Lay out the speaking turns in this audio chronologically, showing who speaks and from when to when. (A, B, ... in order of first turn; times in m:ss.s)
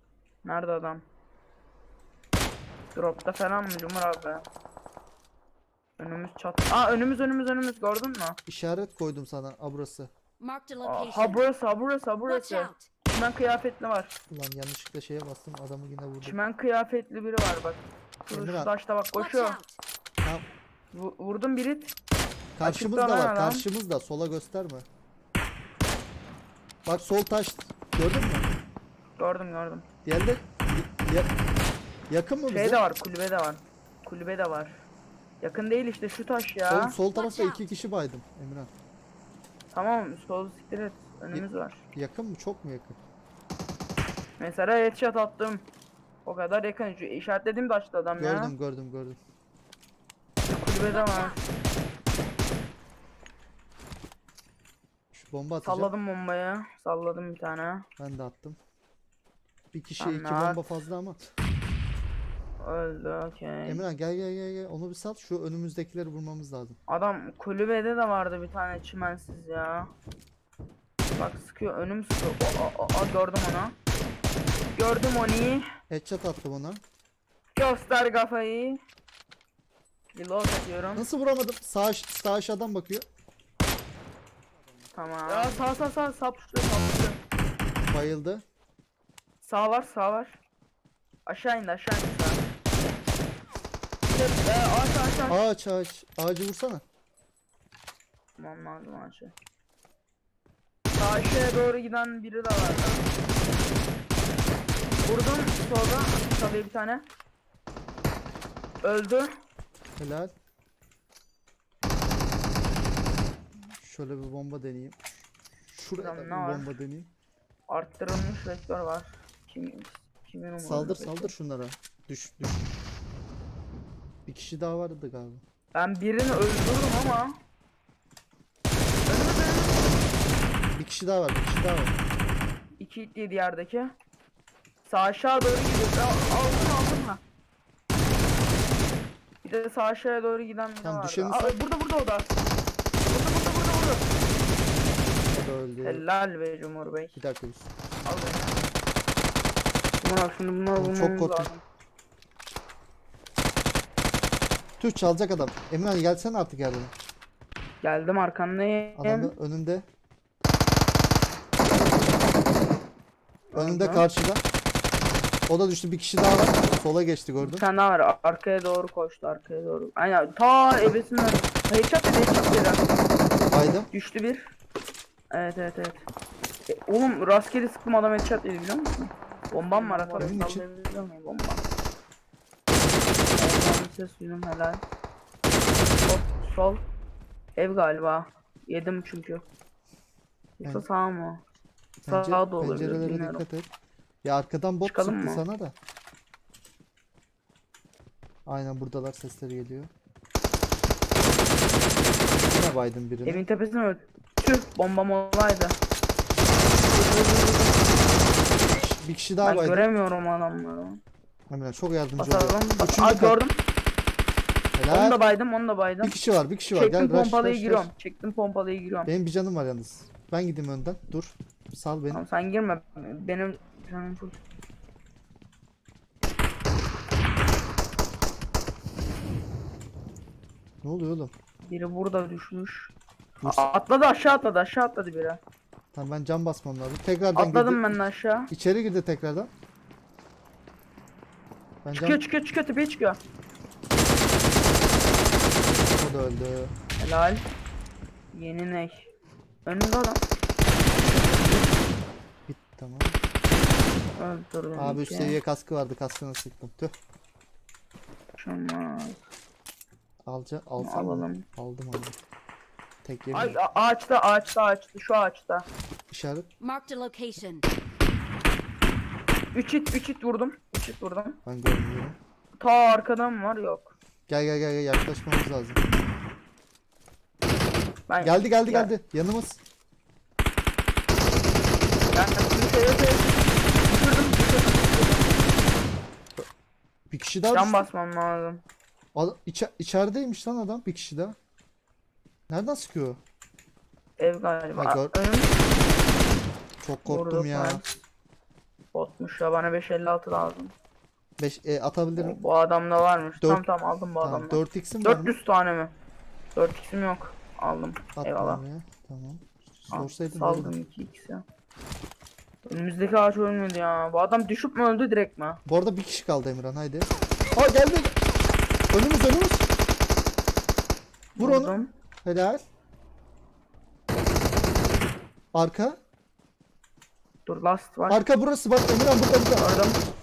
0:00.4-0:01.0 A
0:03.0-0:04.5 A
0:06.0-0:08.4 A
0:08.5-0:10.1 B
0:10.4-0:11.4 C
0:10.8-0:14.1 A
0:12.2-0:12.9 C
0:14.3-0:16.4 B
0:16.2-0:19.6 A
0:18.3-0:18.7 B
0:19.1-0:19.8 C
0:20.9-0:21.9 A
0:22.6-0:24.9 B
0:22.6-0:23.7 A
0:26.9-0:28.5 B
0:29.2-0:29.9 A
0:30.0-0:31.3 B
0:32.1-0:32.8 B
0:32.5-0:34.8 A
0:35.4-0:37.0 A
0:36.7-0:38.7 B
0:37.1-0:37.6 C
0:39.7-0:41.8 A
0:41.3-0:43.0 B
0:44.4-0:45.7 A
0:46.2-0:48.5 A
0:48.2-0:49.2 B
0:50.4-0:51.4 A
0:50.9-0:51.4 C
0:55.1-0:55.9 B
0:55.6-0:57.9 A
0:58.0-0:58.6 B
0:59.7-1:01.2 B
1:00.0-1:00.7 A
1:02.6-1:03.8 A
1:03.6-1:06.8 B
1:06.9-1:09.9 A
1:11.2-1:13.8 A
1:14.8-1:15.6 A
1:15.9-1:16.8 B
1:17.6-1:18.8 A
1:20.1-1:21.1 A
1:21.0-1:23.0 B
1:24.9-1:27.2 A
1:27.9-1:28.4 B
1:29.4-1:30.4 A
1:31.3-1:32.4 A
1:34.1-1:35.4 A
1:35.3-1:36.8 B
1:38.4-1:39.3 A
1:41.0-1:43.1 A
1:45.0-1:47.1 A
1:48.8-1:49.3 A
1:50.0-1:50.3 B
1:53.6-1:57.1 B
1:56.0-1:56.7 A
1:57.7-2:01.3 A
2:00.6-2:02.7 B
2:04.3-2:05.4 B
2:05.7-2:07.4 A
2:09.1-2:09.9 A
2:10.8-2:12.0 B
2:12.8-2:13.9 A
2:14.9-2:17.2 A
2:19.4-2:22.4 A
2:20.8-2:21.6 B
2:23.1-2:24.1 A
2:25.1-2:26.0 B
2:25.8-2:27.2 A
2:27.2-2:27.7 B
2:28.0-2:28.6 A
2:30.0-2:31.6 A
2:30.8-2:31.5 B
2:34.8-2:36.9 B
2:37.8-2:39.3 A
2:39.0-2:39.9 B
2:43.5-2:44.1 A
2:43.6-2:44.4 B
2:45.5-2:47.7 B
2:47.4-2:52.9 A
2:53.5-2:53.9 B
2:53.9-2:54.5 A
2:55.3-2:56.1 A
2:56.7-3:01.6 A
3:00.2-3:00.6 B
3:03.3-3:04.8 A
3:06.1-3:06.8 A
3:07.6-3:09.4 A
3:10.6-3:11.4 A
3:12.0-3:13.7 B
3:12.1-3:13.4 A
3:14.2-3:15.8 B
3:14.8-3:15.4 A
3:18.5-3:19.9 B
3:22.3-3:23.4 B
3:23.2-3:25.8 A
3:26.9-3:27.7 A
3:28.7-3:29.9 B
3:29.4-3:31.0 A
3:31.5-3:33.4 B
3:32.2-3:33.6 A
3:34.8-3:35.2 B
3:34.9-3:36.2 A
3:36.0-3:37.9 B
3:36.7-3:39.1 A
3:39.1-3:42.2 B
3:42.1-3:44.4 A
3:50.8-3:51.3 B
3:51.6-3:55.4 A
3:53.4-3:53.7 B
3:55.9-3:58.0 B
3:57.4-3:58.5 A
3:58.5-3:59.5 B
4:01.8-4:02.2 B
4:01.9-4:03.2 A
4:05.9-4:06.7 B
4:07.0-4:07.4 A
4:08.3-4:09.1 A
4:09.6-4:10.2 A
4:11.1-4:11.6 B
4:12.5-4:13.2 B
4:14.2-4:15.4 A
4:14.8-4:16.9 B
4:18.4-4:19.2 A
4:20.3-4:22.2 B
4:20.8-4:21.4 A
4:23.0-4:23.6 B
4:23.3-4:25.7 A
4:26.1-4:26.5 B
4:26.6-4:27.7 C
4:29.5-4:31.4 A
4:31.5-4:32.2 B
4:32.6-4:33.9 A
4:34.3-4:35.8 B
4:38.1-4:38.9 A
4:38.2-4:39.6 B
4:42.1-4:45.2 A
4:47.1-4:47.9 B
4:47.5-4:48.6 A
4:49.1-4:51.4 B
4:52.5-4:53.2 B
4:54.2-4:55.5 A
4:54.8-4:55.2 B
4:56.8-4:57.8 B
4:57.0-4:57.9 A
4:58.9-5:00.7 A
5:01.4-5:02.4 B
5:02.2-5:06.0 A
5:04.2-5:05.4 B
5:06.6-5:08.6 A
5:08.2-5:10.7 B
5:09.9-5:11.4 A
5:12.7-5:15.6 A
5:15.7-5:18.2 B
5:18.9-5:19.7 B
5:21.4-5:21.9 A
5:21.4-5:22.6 B
5:25.5-5:26.0 B
5:27.5-5:28.3 A
5:28.1-5:29.7 B
5:29.6-5:30.0 A